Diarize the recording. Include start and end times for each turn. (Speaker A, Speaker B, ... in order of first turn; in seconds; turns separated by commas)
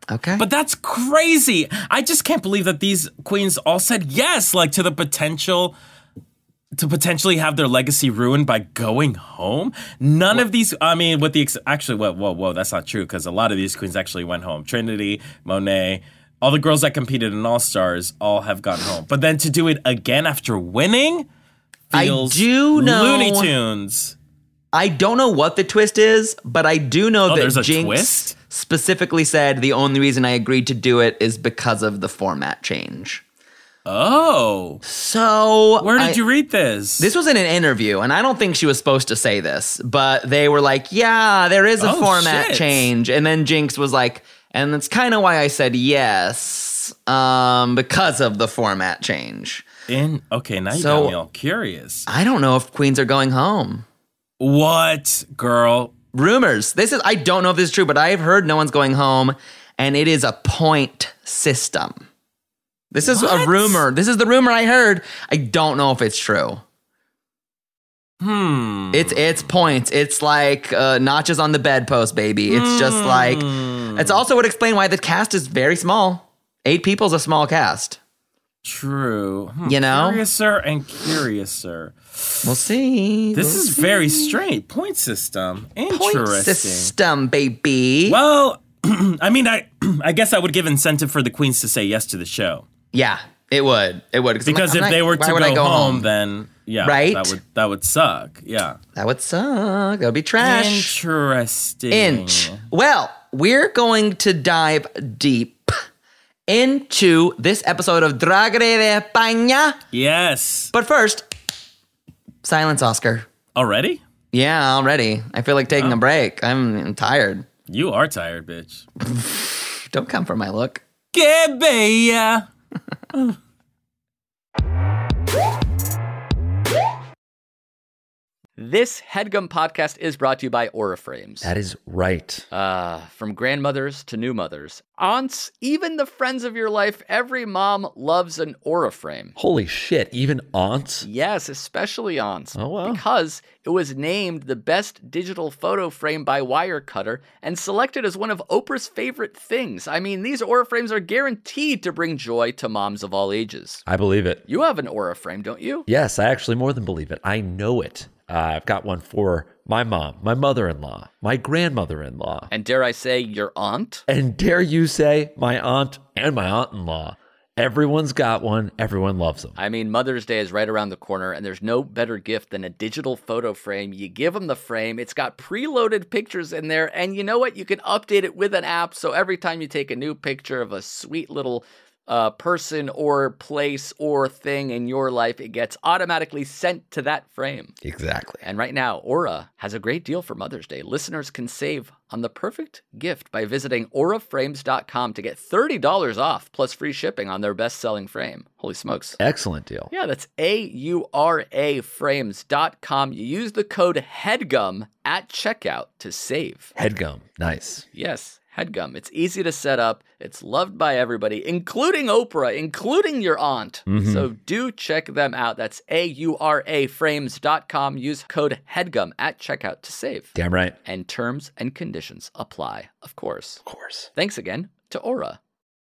Speaker A: 0.1-0.4, Speaker B: 0.4-5.8, Speaker B: 6.8-21.3, Speaker B: 21.9-24.2, Speaker A: 21.9-23.5, Speaker A: 24.7-33.2, Speaker B: 27.3-28.3, Speaker B: 33.9-34.8, Speaker A: 34.9-36.2, Speaker B: 35.8-37.1, Speaker A: 37.0-49.6, Speaker B: 41.8-42.9, Speaker B: 49.9-52.1, Speaker A: 50.7-51.2, Speaker A: 52.1-53.9, Speaker B: 54.4-55.9, Speaker A: 56.1-62.0, Speaker A: 62.9-66.6, Speaker B: 63.1-63.8, Speaker B: 68.2-69.3, Speaker A: 68.9-78.0, Speaker B: 72.5-74.2, Speaker B: 78.7-82.5, Speaker A: 79.7-80.2, Speaker A: 82.4-84.4, Speaker B: 83.3-86.9, Speaker A: 85.9-88.2, Speaker B: 88.1-92.7, Speaker A: 92.9-96.1, Speaker B: 94.4-98.8, Speaker A: 96.8-97.3, Speaker A: 99.0-101.0, Speaker B: 100.4-102.6, Speaker A: 101.9-105.7, Speaker A: 106.5-109.8, Speaker B: 109.9-110.7, Speaker A: 110.7-111.2, Speaker A: 112.4-113.3, Speaker B: 113.5-114.0, Speaker A: 114.3-117.5, Speaker B: 115.7-116.0, Speaker B: 117.7-118.9, Speaker A: 119.0-120.8, Speaker B: 121.1-122.5, Speaker C: 128.6-131.5, Speaker D: 131.4-132.4, Speaker C: 132.5-139.3, Speaker D: 139.4-141.1, Speaker C: 141.0-153.8, Speaker D: 142.6-143.0, Speaker D: 153.9-154.4, Speaker C: 154.5-155.9, Speaker D: 155.9-162.5, Speaker C: 162.5-164.0, Speaker D: 164.1-169.6, Speaker C: 169.6-187.8, Speaker D: 187.8-188.4, Speaker C: 188.4-199.2, Speaker D: 199.2-199.9, Speaker C: 199.9-206.7, Speaker D: 206.8-207.8, Speaker C: 207.9-223.6, Speaker D: 213.9-214.3, Speaker D: 220.4-220.8, Speaker D: 223.7-224.1, Speaker C: 224.1-225.4